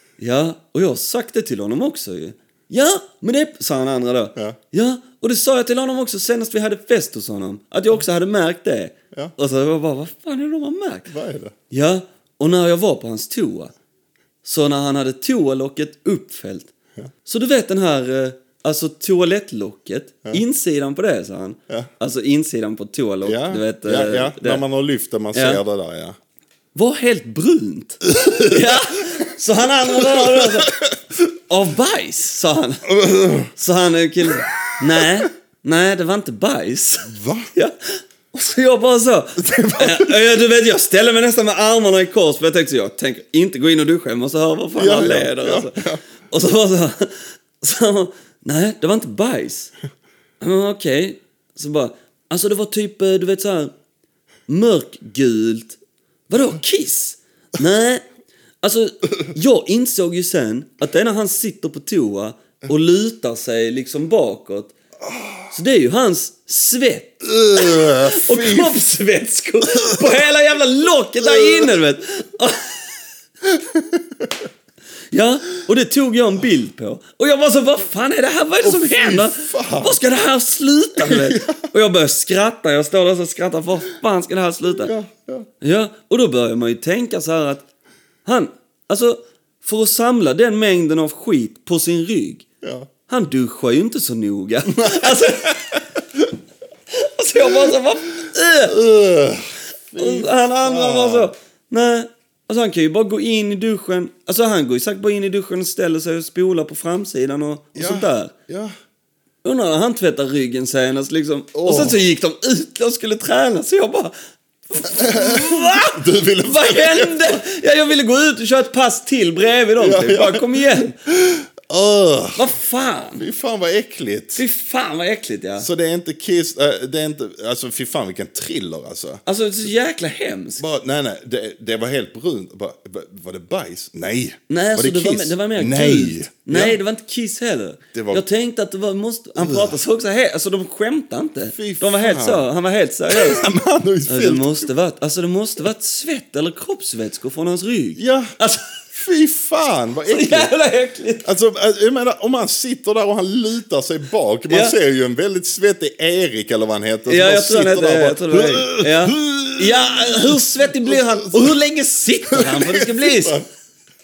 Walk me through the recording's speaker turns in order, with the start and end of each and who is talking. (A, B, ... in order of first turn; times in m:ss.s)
0:00.2-0:11.1 A
0:11.1-0:11.5 B
0:11.7-0:13.7 A
0:14.4-0:16.7 A
0:17.2-0:24.6 A
0:23.2-0:26.2 B
0:25.3-0:25.6 A
0:26.7-0:30.8 A
0:28.1-0:28.8 B
0:29.8-0:30.9 B
0:31.5-0:32.9 A
0:32.8-0:33.5 B
0:33.5-0:49.7 A
0:35.0-0:35.2 B
0:37.1-0:37.5 B
0:39.4-0:40.2 B
0:44.8-0:46.0 B
0:50.4-0:53.7 A
0:54.5-0:58.0 A
0:58.6-1:04.7 A
1:05.1-1:05.4 B
1:05.5-1:12.9 A
1:07.2-1:08.8 B
1:09.7-1:10.3 B
1:11.2-1:11.7 B
1:13.5-1:14.3 B
1:15.1-1:24.9 A
1:18.6-1:20.0 B
1:21.0-1:21.6 B
1:24.8-1:25.5 B
1:25.6-1:27.7 A
1:28.2-1:32.4 A
1:32.6-1:32.9 B
1:33.1-1:35.8 A
1:34.7-1:36.3 B
1:36.9-1:38.8 A
1:38.7-1:41.3 B
1:40.0-1:48.3 A
1:47.8-1:48.7 B
1:49.4-1:54.1 A
1:51.6-1:52.0 B
1:54.7-2:01.0 A
1:54.8-1:57.4 B
1:59.8-2:02.5 B
2:02.4-2:03.2 A
2:03.2-2:04.4 B
2:04.4-2:05.7 A
2:05.6-2:09.2 B
2:09.3-2:10.7 A
2:10.6-2:16.8 B
2:14.5-2:23.4 A
2:17.9-2:18.2 B
2:19.4-2:19.8 B
2:21.5-2:22.4 B
2:23.1-2:24.7 B
2:24.1-2:28.8 A
2:28.0-2:28.3 B
2:28.9-2:30.5 B
2:30.1-2:31.3 A
2:31.2-2:41.6 B
2:34.5-2:34.8 A
2:37.1-2:43.4 A
2:42.3-2:43.4 B